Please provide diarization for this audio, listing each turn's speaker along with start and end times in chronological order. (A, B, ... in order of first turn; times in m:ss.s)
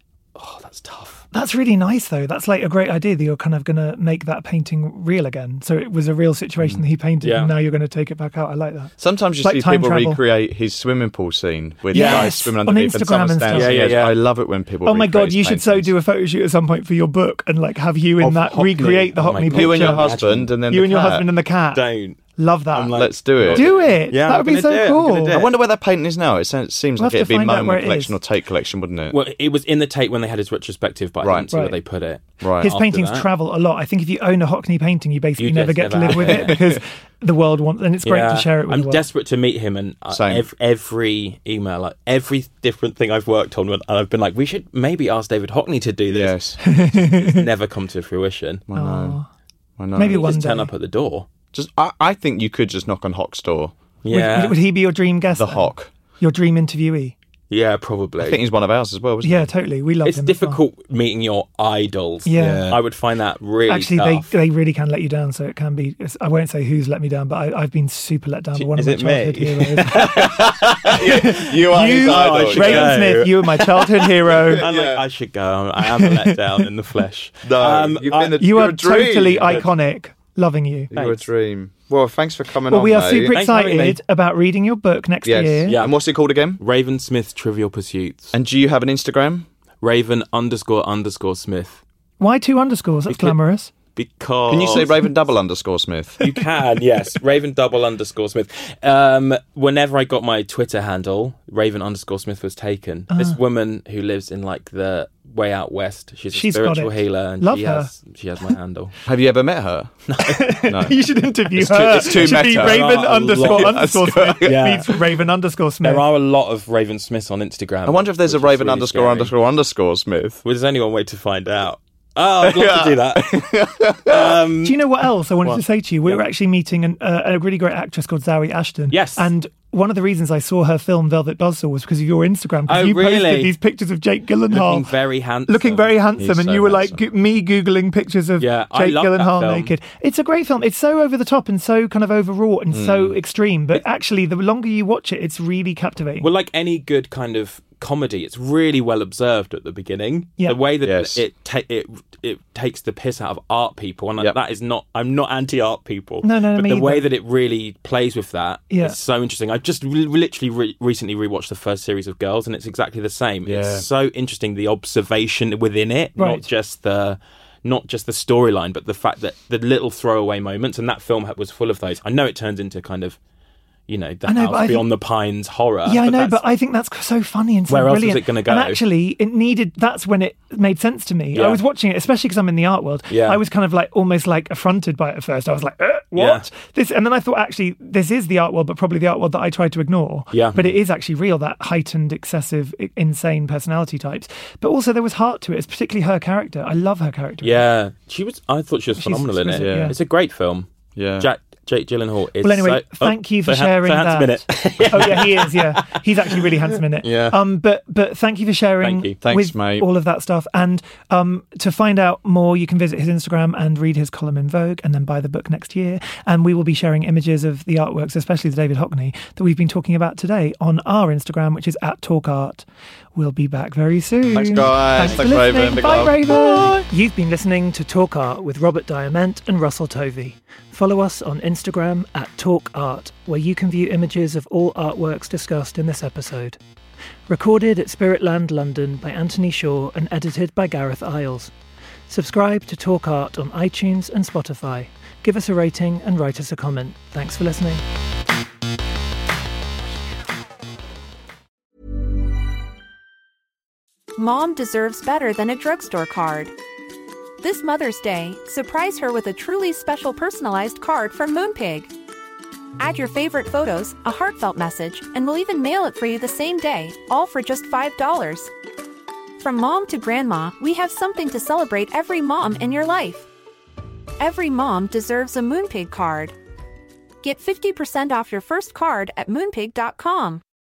0:00.4-0:01.2 A
0:01.3-0:10.2 B
0:07.2-0:07.6 A
0:09.0-0:15.9 C
0:11.9-0:14.0 B
0:11.9-0:12.5 A
0:13.5-0:14.2 A
0:14.8-0:21.8 B
0:18.2-0:20.6 A
0:19.4-0:21.3 C
0:21.7-0:22.2 A
0:22.4-0:25.4 B
0:22.7-0:25.5 A
0:22.9-0:23.7 C
0:25.3-0:29.2 C
0:27.0-0:28.2 B
0:29.1-0:33.3 A
0:31.2-0:31.5 C
0:31.5-0:31.8 B
0:32.4-0:32.7 C
0:32.6-0:39.0 B
0:35.4-0:36.7 A
0:36.1-0:36.8 C
0:38.0-0:48.7 A
0:40.1-0:40.5 C
0:46.1-0:46.6 C
0:46.6-0:47.5 B
0:48.7-0:49.2 C
0:48.7-0:49.3 B
0:49.8-0:50.3 C
0:50.0-0:50.7 B
0:50.0-0:51.3 A
0:51.5-0:53.7 C
0:54.0-0:54.6 A
0:54.1-0:57.2 B
0:55.3-0:55.9 C
0:57.5-0:58.4 A
0:58.2-0:59.5 C
0:59.2-1:00.6 B
1:00.0-1:04.3 A
1:02.3-1:02.7 B
1:02.4-1:02.8 C
1:03.7-1:10.1 B
1:08.6-1:18.6 A
1:10.0-1:13.2 C
1:11.0-1:14.7 B
1:14.3-1:15.0 C
1:16.0-1:16.6 B
1:17.4-1:19.7 C
1:18.4-1:20.9 B
1:19.4-1:19.7 A
1:20.9-1:23.4 C
1:20.9-1:21.3 A
1:22.7-1:25.8 B
1:23.3-1:24.0 A
1:25.2-1:26.6 C
1:25.7-1:25.9 A
1:26.6-1:28.3 A
1:28.3-1:29.5 C
1:29.8-1:31.8 A
1:32.2-1:33.7 B
1:33.1-1:33.4 A
1:34.0-1:35.0 A
1:34.5-1:36.2 C
1:36.2-1:49.0 A
1:43.1-1:43.4 B
1:46.3-1:47.9 B
1:49.1-1:49.9 C
1:50.1-1:50.7 A
1:50.2-1:56.0 B
1:50.6-1:51.0 C
1:51.5-1:54.8 C
1:51.8-1:55.2 A
1:55.8-1:59.4 A
1:57.9-2:00.4 C
2:00.4-2:04.9 A
2:02.4-2:04.4 C
2:04.6-2:14.9 B
2:05.4-2:06.2 A
2:08.9-2:09.3 A
2:12.7-2:13.5 A
2:14.5-2:16.7 A
2:15.5-2:26.3 B
2:16.2-2:17.0 C
2:18.4-2:19.7 A
2:22.7-2:23.2 C
2:26.2-2:53.2 A
2:30.8-2:31.2 C
2:36.2-2:37.0 B
2:38.7-2:39.0 B
2:43.4-2:43.8 C
2:46.2-2:46.4 B
2:53.9-2:56.4 A
2:54.3-2:54.9 B
2:55.8-3:17.6 B
2:57.7-2:58.8 A
3:01.3-3:01.6 A
3:03.1-3:03.4 A
3:06.1-3:06.5 A
3:10.3-3:10.6 A
3:17.4-3:27.4 A
3:19.0-3:20.0 B
3:19.6-3:19.9 C
3:21.0-3:21.3 C
3:22.4-3:42.6 B
3:28.8-3:29.2 A
3:29.2-3:29.9 C
3:43.2-3:56.6 B
3:44.3-3:46.8 C
3:45.0-3:45.3 A
3:57.3-4:01.5 B
4:02.1-4:07.8 B
4:14.2-4:16.5 D
4:17.4-4:21.9 D
4:22.8-4:28.5 D
4:29.4-4:33.3 D
4:34.2-4:36.4 D
4:37.2-4:40.4 D